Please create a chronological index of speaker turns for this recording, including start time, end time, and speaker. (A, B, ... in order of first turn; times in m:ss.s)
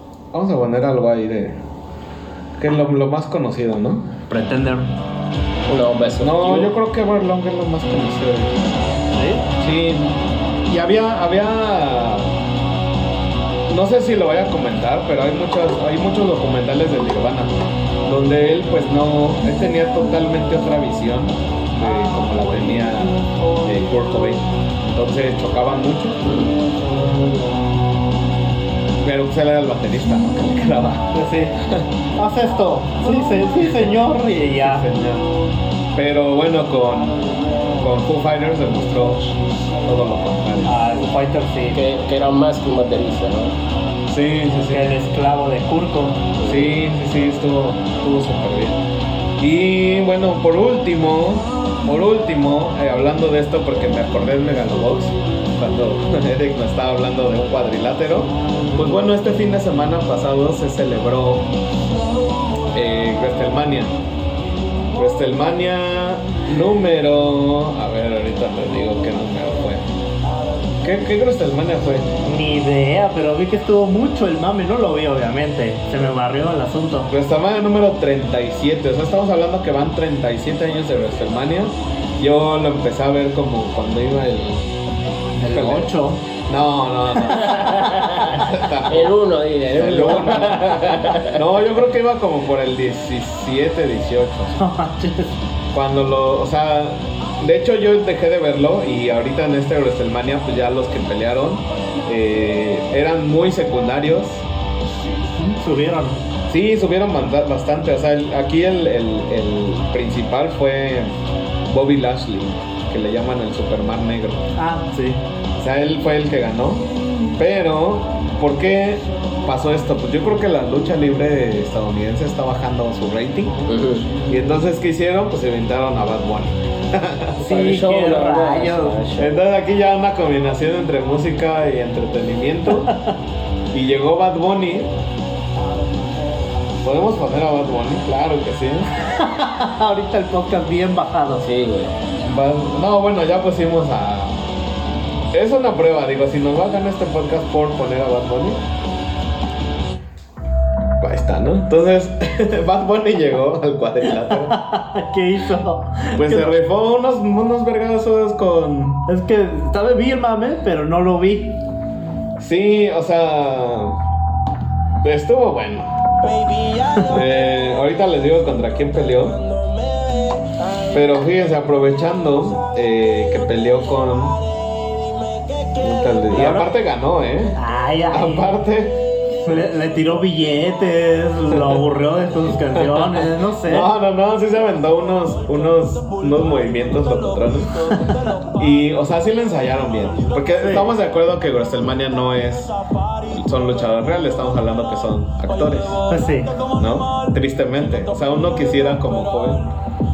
0:00.3-0:01.6 A
0:02.6-0:04.1 A
0:04.3-0:04.9 B
0:05.7-0:06.7 C
0:06.2-0:08.8 A
0:09.1-0:09.5 B
0:09.6-0:12.3 A
0:13.7-0:26.2 A
0:26.2-0:26.5 C
0:29.0-0:31.9 A
0:31.1-0:31.6 B
0:32.2-0:34.9 B
0:34.6-0:35.3 A
0:36.0-0:39.3 A
0:39.8-0:40.8 A
0:40.6-0:41.8 B
0:41.7-0:43.6 C
0:44.1-0:44.9 A
0:44.7-0:46.3 B
0:46.4-0:46.7 C
0:46.4-0:48.8 A
0:49.4-1:01.5 A
1:02.7-1:04.0 A
1:05.0-1:09.9 A
1:10.8-1:12.1 A
1:12.2-1:17.1 B
1:17.1-1:24.7 A
1:25.4-1:26.2 B
1:25.4-1:25.9 A
1:26.5-1:29.2 A
1:27.3-1:31.4 C
1:29.7-1:34.6 A
1:34.6-1:35.4 B
1:35.7-1:44.4 A
1:45.4-1:46.2 B
1:46.5-1:51.2 A
1:51.7-1:54.5 A
1:54.6-1:55.2 B
1:55.6-2:03.6 A
2:03.7-2:04.1 C
2:04.3-2:07.4 A
2:07.4-2:09.1 B
2:07.4-2:09.4 C
2:09.2-2:12.9 A
2:12.8-2:13.1 B
2:13.7-2:14.9 A
2:16.8-2:18.9 A
2:19.1-2:21.5 B
2:21.4-2:22.0 C
2:22.2-2:24.4 A
2:25.3-2:28.6 A
2:31.0-2:34.6 A
2:34.2-2:36.5 B
2:36.2-2:39.0 A
2:39.1-2:41.6 B
2:42.4-2:44.0 A
2:45.0-2:46.0 A
2:47.0-2:49.4 A
2:50.9-2:54.4 A
2:55.8-2:57.6 A
2:56.3-2:56.7 B
2:57.6-2:58.5 B
2:58.1-2:59.0 A
2:59.4-3:03.9 B
3:02.8-3:08.0 A
3:08.6-3:12.7 A
3:10.6-3:10.9 B
3:13.3-3:16.0 A
3:16.1-3:16.6 B
3:16.8-3:19.7 A